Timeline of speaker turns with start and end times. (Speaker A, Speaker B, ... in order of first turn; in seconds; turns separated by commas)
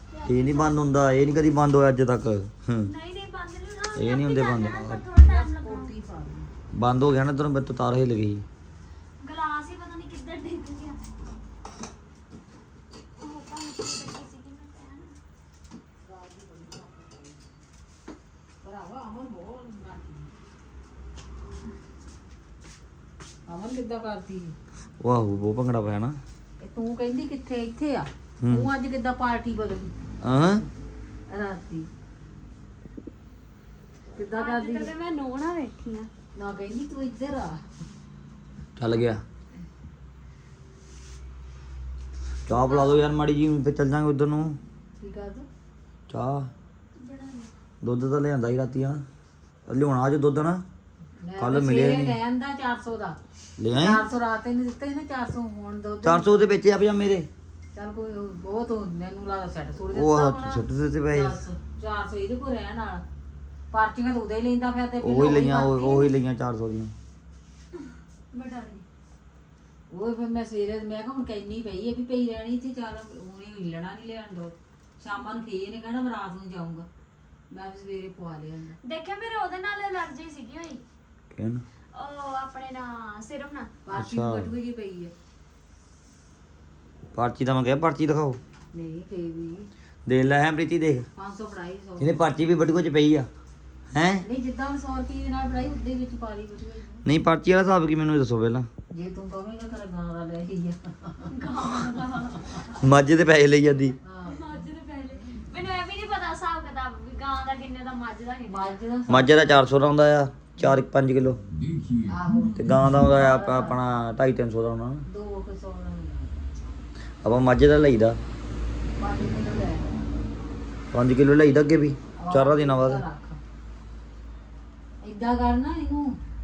Speaker A: 0.1-0.7, Speaker B: 0.2-2.9, Speaker A: 2.8-5.9, Speaker B: 4.0-5.1, Speaker C: 5.2-6.5, Speaker B: 6.7-8.4, Speaker A: 9.2-11.0, Speaker A: 13.2-15.1, Speaker C: 16.0-17.6, Speaker C: 18.6-20.4, Speaker C: 23.5-24.5, Speaker B: 25.0-26.2, Speaker C: 26.6-30.0, Speaker B: 28.4-28.7, Speaker B: 30.2-30.6, Speaker C: 31.3-31.9, Speaker C: 34.1-34.9, Speaker A: 34.3-36.1, Speaker C: 36.3-37.6, Speaker B: 38.8-39.2, Speaker B: 42.5-44.6, Speaker A: 42.7-43.0, Speaker C: 45.0-45.5, Speaker B: 46.1-46.5, Speaker A: 47.0-47.5, Speaker B: 47.8-49.0, Speaker B: 49.7-50.6, Speaker C: 51.2-53.2, Speaker B: 51.4-52.2, Speaker B: 53.6-54.0, Speaker C: 53.7-56.6, Speaker B: 56.0-57.3, Speaker C: 57.7-63.0, Speaker B: 59.9-61.4, Speaker C: 63.7-66.1, Speaker B: 65.0-66.9, Speaker A: 68.3-68.8, Speaker C: 69.9-76.9, Speaker C: 77.5-78.8, Speaker A: 78.8-80.8, Speaker B: 81.3-81.6, Speaker A: 81.9-83.7, Speaker C: 83.8-85.1, Speaker B: 83.9-84.5, Speaker B: 87.1-88.4, Speaker C: 88.7-89.7, Speaker B: 90.0-91.1, Speaker C: 91.2-92.4, Speaker B: 92.0-93.3, Speaker B: 93.9-94.2, Speaker C: 94.2-97.0, Speaker B: 97.0-98.7, Speaker C: 98.9-101.5, Speaker A: 101.3-102.8, Speaker B: 102.8-104.0, Speaker C: 104.0-104.6, Speaker A: 104.3-108.7, Speaker C: 108.4-109.3, Speaker B: 109.1-111.4, Speaker C: 112.1-113.8, Speaker B: 112.5-115.0, Speaker C: 115.1-116.7, Speaker B: 117.2-118.2, Speaker C: 119.0-119.9, Speaker B: 120.9-123.0, Speaker C: 122.2-123.4, Speaker C: 125.0-126.2